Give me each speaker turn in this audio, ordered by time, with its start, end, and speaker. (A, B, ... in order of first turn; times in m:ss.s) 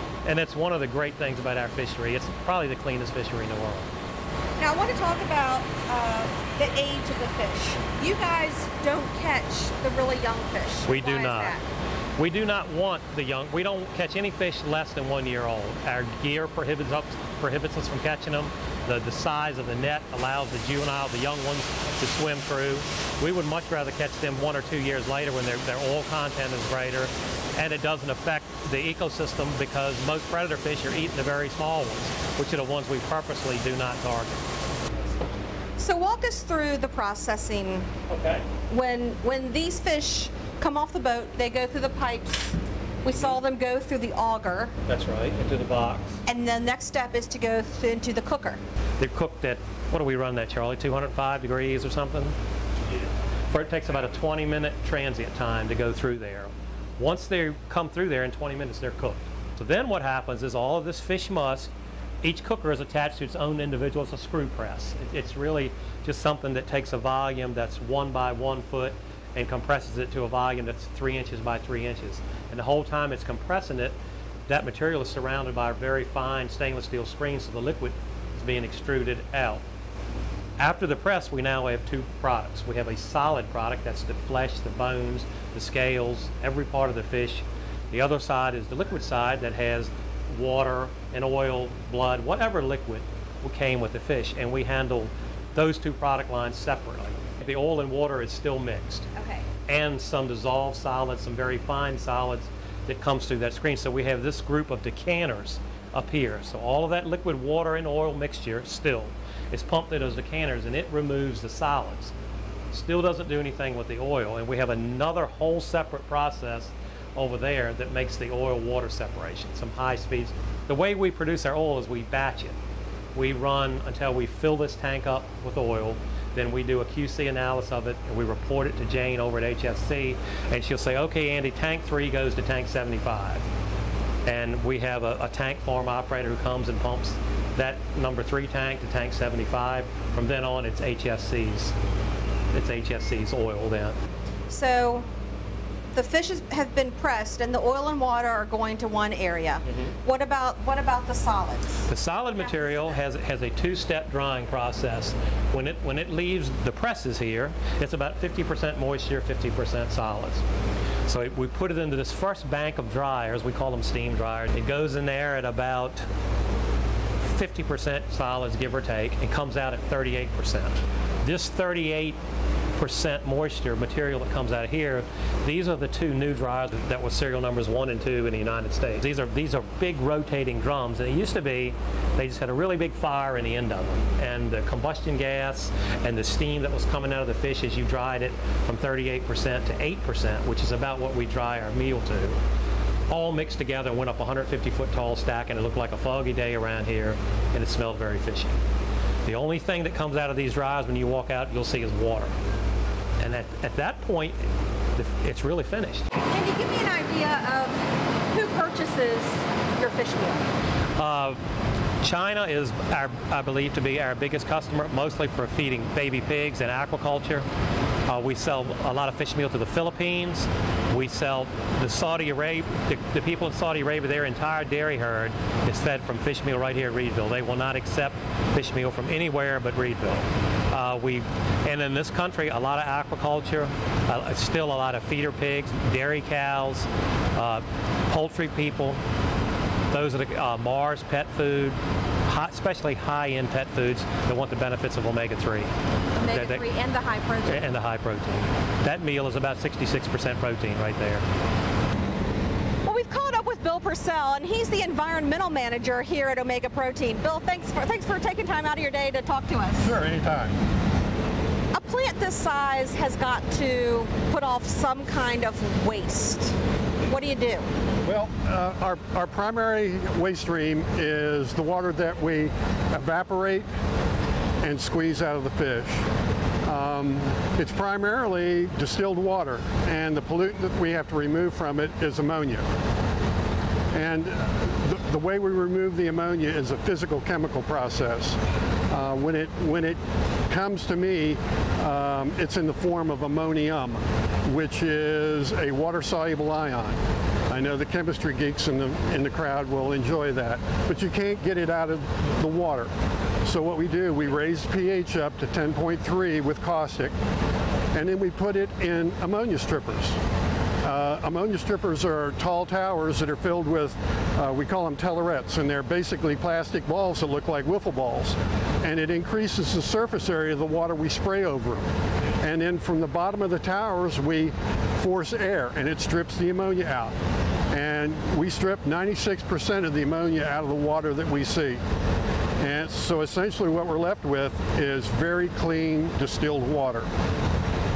0:00.2-0:03.9 A
0:04.6-0:11.6 B
0:10.9-0:11.6 A
0:12.2-0:34.5 A
0:35.8-0:37.9 B
0:38.1-0:38.4 A
0:38.7-0:44.7 B
0:44.9-0:46.2 A
0:46.2-0:48.6 B
0:49.0-0:52.3 A
0:53.0-1:01.7 A
1:02.2-1:19.6 A
1:20.6-1:39.1 A
1:39.2-1:39.4 B
1:39.7-1:52.1 A
1:52.7-2:02.6 A
2:03.1-2:13.4 A
2:14.2-2:21.7 A
2:22.5-2:24.0 A
2:24.5-2:25.1 B
2:25.9-2:31.8 B
2:31.9-2:40.4 A
2:32.4-2:32.9 B
2:41.1-2:46.0 A
2:47.2-2:52.2 A
2:52.8-3:12.4 A
3:13.1-3:18.6 A
3:19.2-3:22.3 A
3:23.2-3:24.4 A
3:25.0-3:26.1 A
3:26.2-3:30.5 B
3:31.0-3:31.4 A
3:32.0-3:37.4 A
3:38.1-3:59.0 A
3:59.9-4:05.7 A
4:06.2-4:07.6 B
4:06.3-4:06.6 A
4:07.5-4:11.2 A
4:12.8-4:19.9 B
4:19.8-4:20.6 C
4:21.7-4:26.6 B
4:27.1-4:27.7 B
4:28.0-4:33.7 C
4:34.6-4:36.1 C
4:36.6-4:42.6 C
4:43.9-5:07.2 C
5:07.9-5:10.2 C
5:10.8-5:27.2 C
5:27.7-5:31.8 C
5:32.6-5:37.1 C